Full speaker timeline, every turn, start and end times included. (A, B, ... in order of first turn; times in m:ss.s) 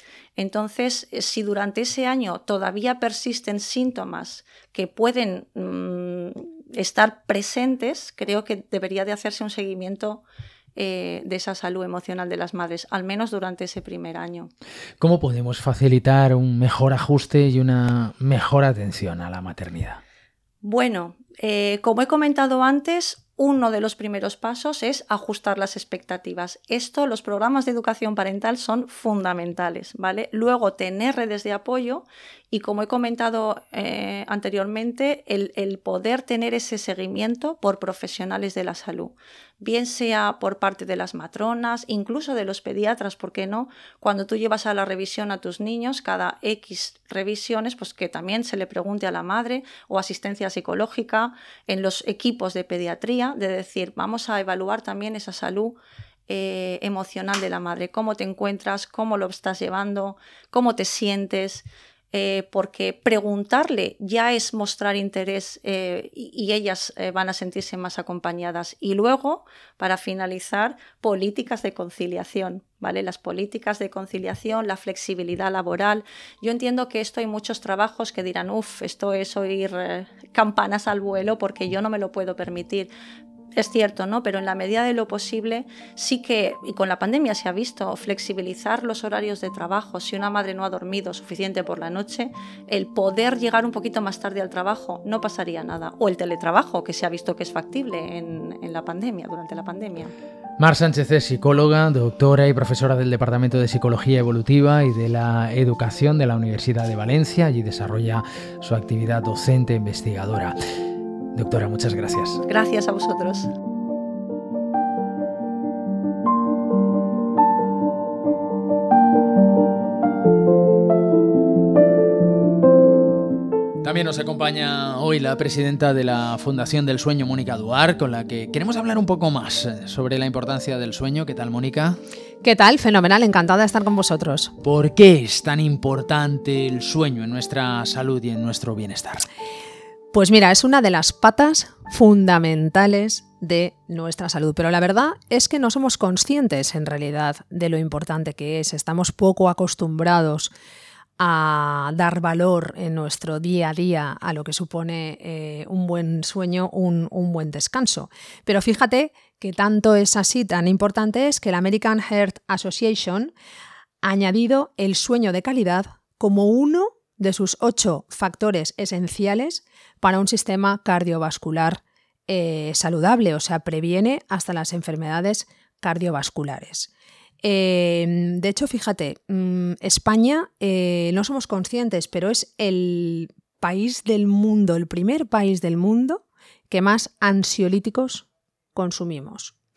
0:00.4-0:10.2 A
0:10.8-0:14.5 A
0:15.0-0:20.0 B
0:20.6-1:22.9 A
1:23.6-1:40.1 A
1:40.6-1:50.6 B
1:51.3-1:52.4 B
1:52.5-1:53.5 A
2:03.8-2:12.0 B
2:12.4-2:14.5 C
2:14.6-2:19.3 B
2:20.1-2:30.5 C
2:31.2-2:43.3 C
2:44.0-2:56.9 C
2:57.4-3:09.6 C